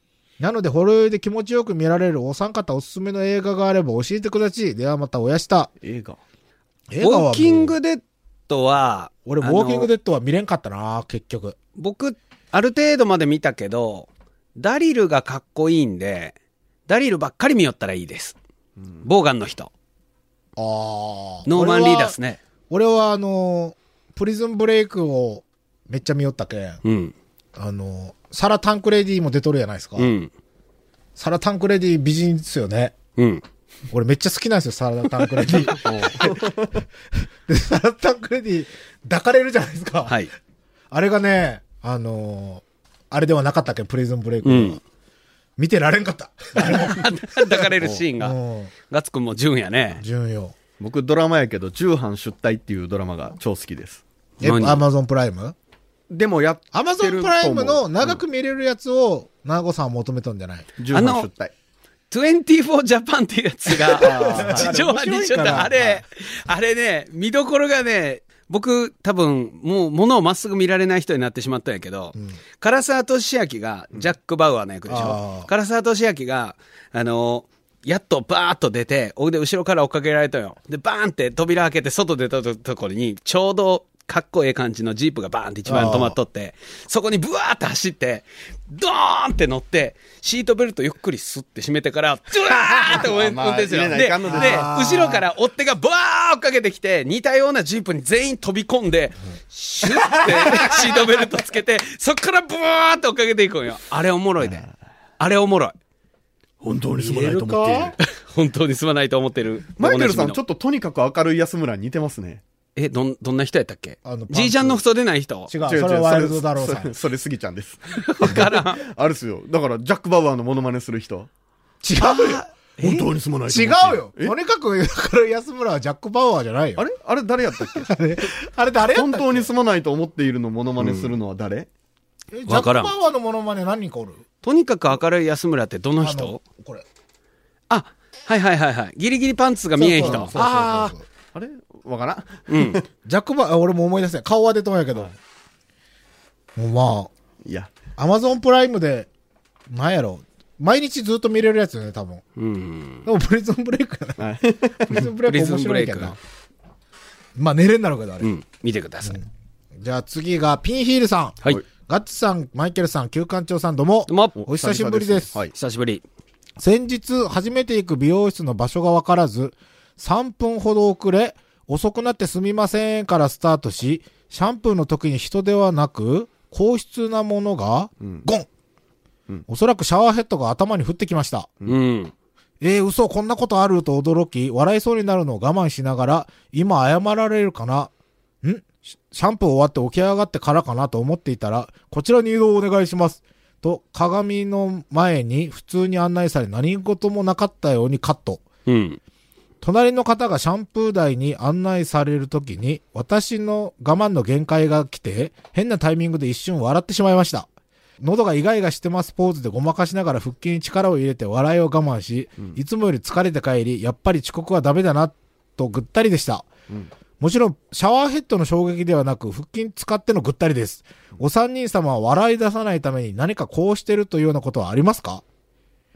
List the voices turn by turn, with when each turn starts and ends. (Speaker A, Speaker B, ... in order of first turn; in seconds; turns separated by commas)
Speaker A: 0.4-5.7, Speaker B: 5.8-6.2, Speaker A: 6.9-7.8, Speaker C: 7.0-9.9, Speaker A: 9.3-11.6, Speaker C: 11.8-16.4, Speaker C: 16.9-18.4, Speaker C: 19.0-19.7, Speaker A: 20.6-22.2, Speaker C: 21.5-22.4, Speaker A: 22.7-26.8, Speaker C: 26.8-27.1, Speaker A: 27.6-30.1, Speaker C: 30.0-30.3, Speaker A: 31.2-33.0, Speaker C: 33.2-33.4, Speaker A: 33.9-36.5, Speaker B: 35.7-36.8, Speaker A: 37.5-40.2, Speaker C: 40.1-40.3, Speaker A: 40.9-44.8, Speaker C: 44.4-44.8, Speaker A: 45.6-48.7, Speaker C: 47.0-48.4, Speaker C: 48.9-50.0, Speaker A: 50.0-50.6, Speaker B: 50.8-54.0, Speaker C: 54.4-54.8, Speaker A: 54.4-55.5, Speaker B: 56.1-58.2, Speaker A: 56.7-60.7, Speaker B: 60.8-61.5, Speaker C: 60.9-61.3, Speaker C: 62.1-104.7, Speaker B: 63.9-64.7, Speaker A: 64.0-66.0, Speaker A: 74.9-75.5, Speaker A: 85.7-86.2, Speaker B: 92.9-94.7, Speaker A: 94.3-95.2, Speaker A: 100.1-100.9, Speaker B: 104.4-104.7, Speaker C: 105.2-105.8, Speaker B: 106.6-108.0, Speaker A: 107.0-107.9, Speaker C: 108.0-110.4, Speaker B: 109.8-112.4, Speaker C: 112.8-115.5, Speaker A: 114.0-114.8, Speaker A: 115.5-116.9, Speaker B: 115.6-121.3, Speaker C: 117.9-118.8, Speaker A: 121.8-122.9, Speaker C: 122.0-123.0, Speaker B: 122.8-124.3, Speaker A: 123.5-126.8, Speaker B: 126.8-127.9, Speaker A: 127.6-129.5, Speaker B: 128.9-131.7, Speaker C: 130.8-131.1, Speaker A: 132.3-134.2, Speaker C: 132.5-132.9, Speaker C: 134.4-136.4, Speaker A: 136.0-136.8, Speaker C: 137.7-140.3, Speaker A: 139.8-141.0, Speaker B: 140.0-142.8, Speaker C: 142.5-142.8, Speaker A: 143.1-145.1, Speaker A: 146.6-147.1, Speaker B: 147.4-147.8, Speaker A: 148.0-149.1, Speaker A: 149.7-152.2, Speaker C: 152.4-153.1, Speaker A: 153.1-154.2, Speaker B: 154.2-155.1, Speaker A: 154.8-156.2, Speaker C: 154.9-156.2, Speaker A: 157.4-158.3, Speaker C: 158.2-159.2, Speaker A: 159.8-165.3, Speaker C: 164.1-164.4, Speaker B: 164.4-165.5, Speaker C: 165.5-166.0, Speaker A: 166.6-178.5, Speaker A: 179.5-181.5, Speaker C: 181.7-182.1, Speaker A: 182.6-198.4, Speaker C: 198.7-199.0, Speaker A: 199.6-207.5, Speaker A: 208.0-216.5, Speaker A: 217.2-225.2